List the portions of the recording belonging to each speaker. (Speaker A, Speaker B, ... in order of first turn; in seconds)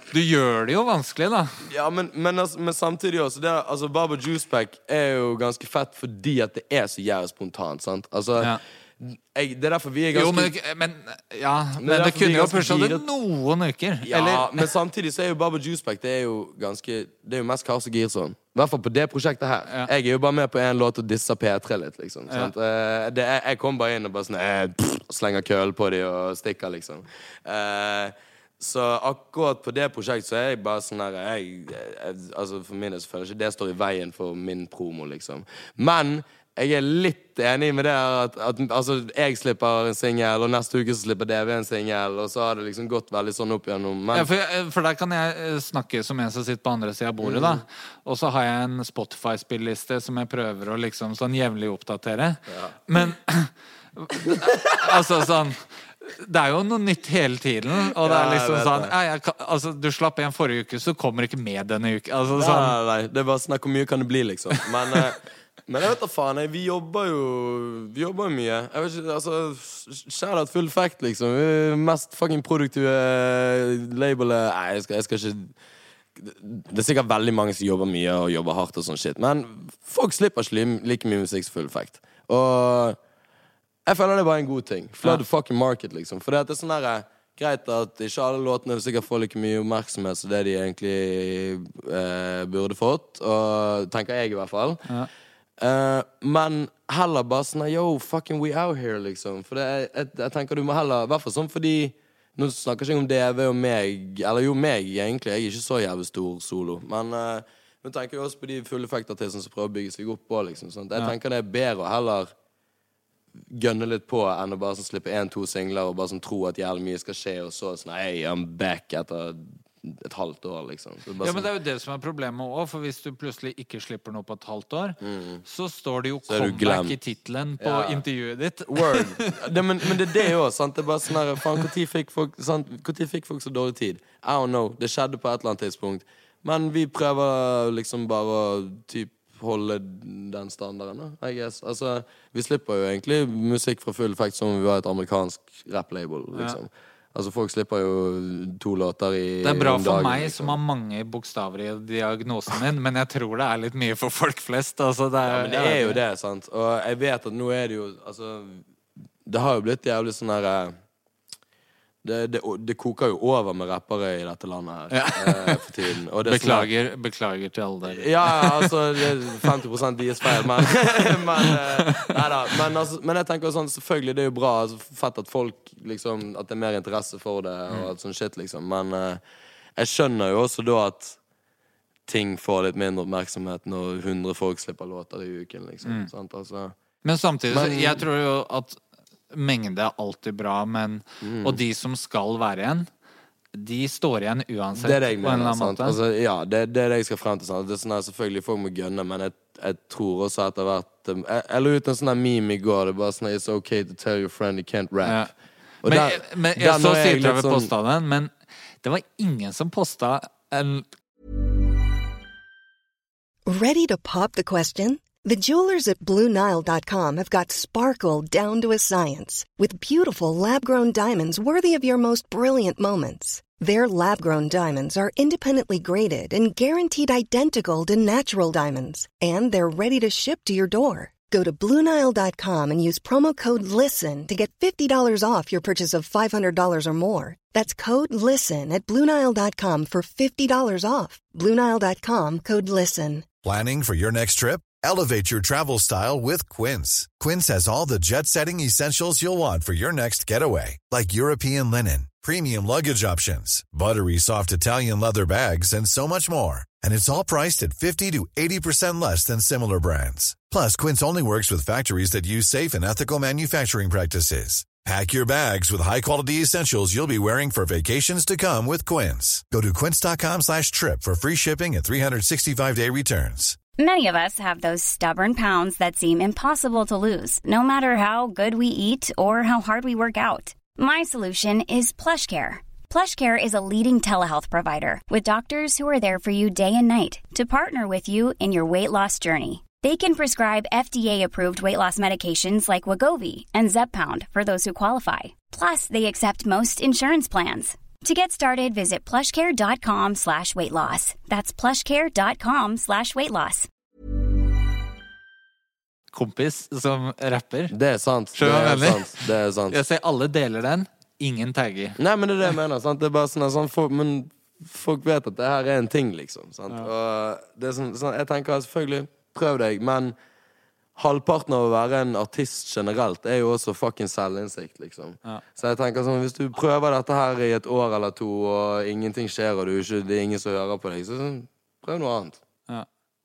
Speaker A: 0.1-1.7, 10.1-14.7, 44.1-62.8, 121.2-130.3, 149.4-156.0, 164.9-165.7, 166.2-169.4, 171.5-172.1, 187.0-188.8, 189.3-192.9, 193.5-196.0, 205.0-205.3, 205.8-210.9, 306.1-307.7, 308.3-312.0
Speaker B: 1.6-10.5, 11.8-13.0, 14.0-44.3, 47.2-47.6, 52.5-52.8, 54.3-55.0, 58.0-58.9, 62.4-75.5, 76.1-83.0, 83.8-94.9, 95.6-112.3, 113.5-121.5, 125.0-125.4, 126.3-127.0, 127.6-128.0, 128.7-150.6, 155.2-158.6, 159.2-160.8, 162.0-166.7, 167.9-179.2, 179.8-181.2, 182.1-186.8, 187.5-188.0, 191.2-191.6, 194.7-205.3, 205.8-207.7, 307.7-309.8, 312.0-320.1, 320.9-332.4
Speaker C: 213.5-243.3
Speaker D: 243.4-273.6
Speaker E: 273.8-303.7